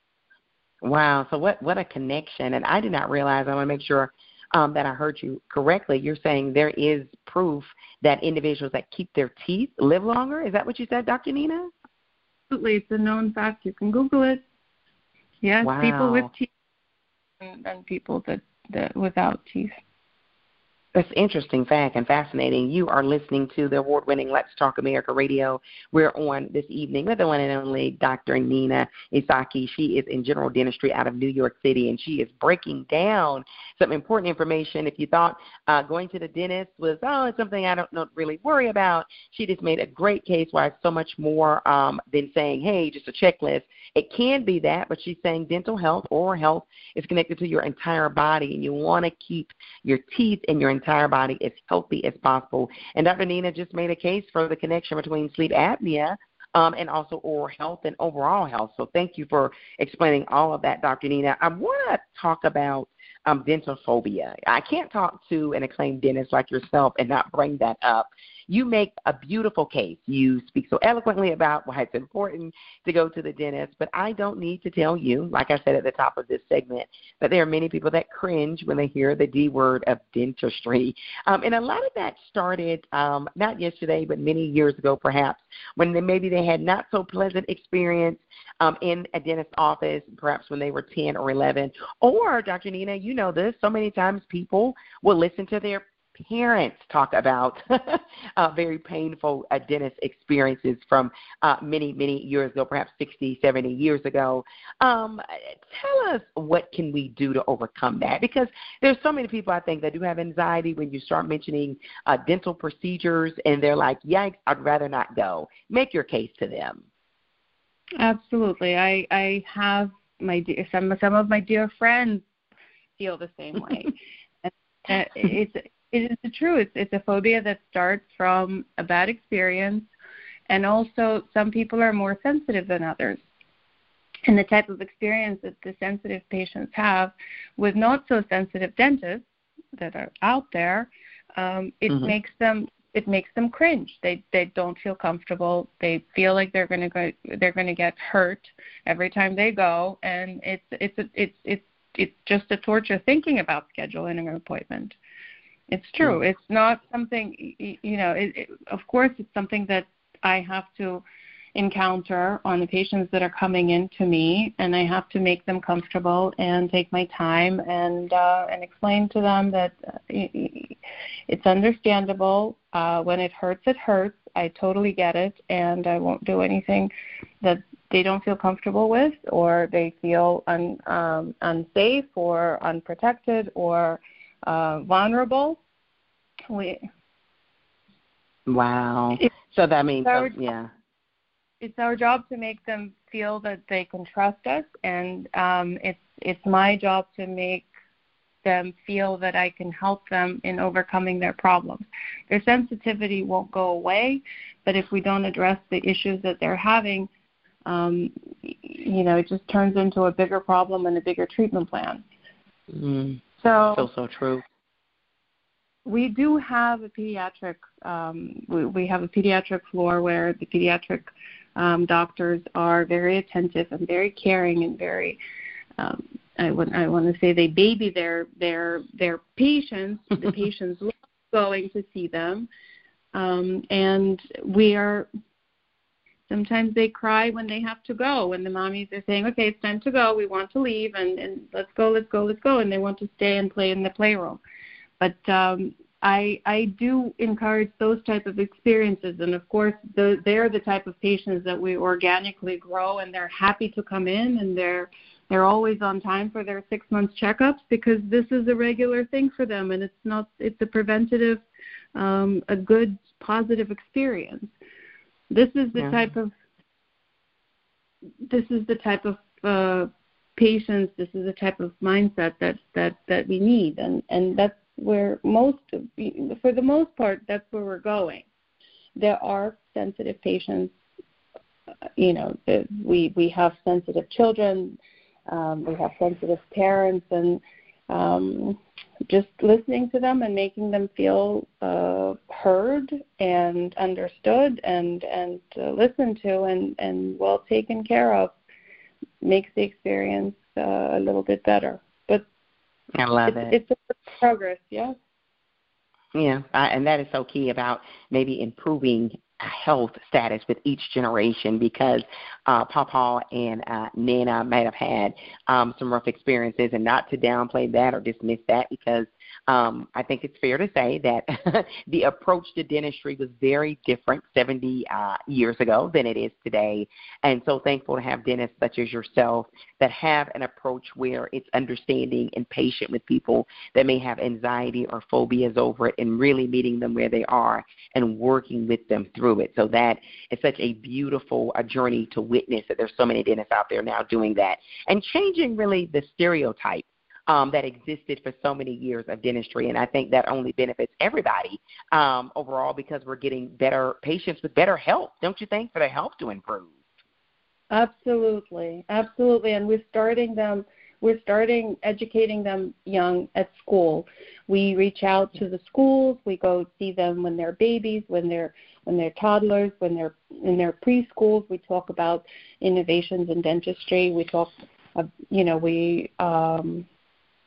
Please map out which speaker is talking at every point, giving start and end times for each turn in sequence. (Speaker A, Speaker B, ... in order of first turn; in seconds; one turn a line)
Speaker A: 0.8-11.7
Speaker B: 12.5-14.4
Speaker B: 15.4-16.5
Speaker A: 15.6-16.3
Speaker B: 17.4-19.7
Speaker A: 20.9-116.8
Speaker B: 118.0-122.2
Speaker B: 123.0-129.9
Speaker B: 130.5-133.2
Speaker B: 134.3-155.0
Speaker A: 141.9-142.1
Speaker B: 155.7-185.6
Speaker B: 186.5-186.8
Speaker A: 188.5-190.7
Speaker B: 190.0-190.4
Speaker B: 191.6-197.7
Speaker B: 198.4-207.1
Speaker B: 207.7-212.0
Speaker A: 212.7-214.4
Speaker B: 213.4-213.9
Speaker B: 215.8-225.2
Speaker B: 225.8-232.5
Speaker B: 233.1-235.1
Speaker B: 236.3-244.4
Speaker B: 245.0-261.4
Speaker B: 261.9-264.5
Speaker B: 265.3-266.3
Speaker A: 265.8-266.1
Speaker B: 268.2-278.2
Speaker B: 279.0-280.7
Speaker B: 282.0-284.8
Speaker B: 285.3-298.4
Speaker B: 299.2-302.2
Speaker A: 303.0-303.6
Speaker B: 303.2-304.9
Speaker A: 306.1-356.7
Speaker B: 357.7-376.8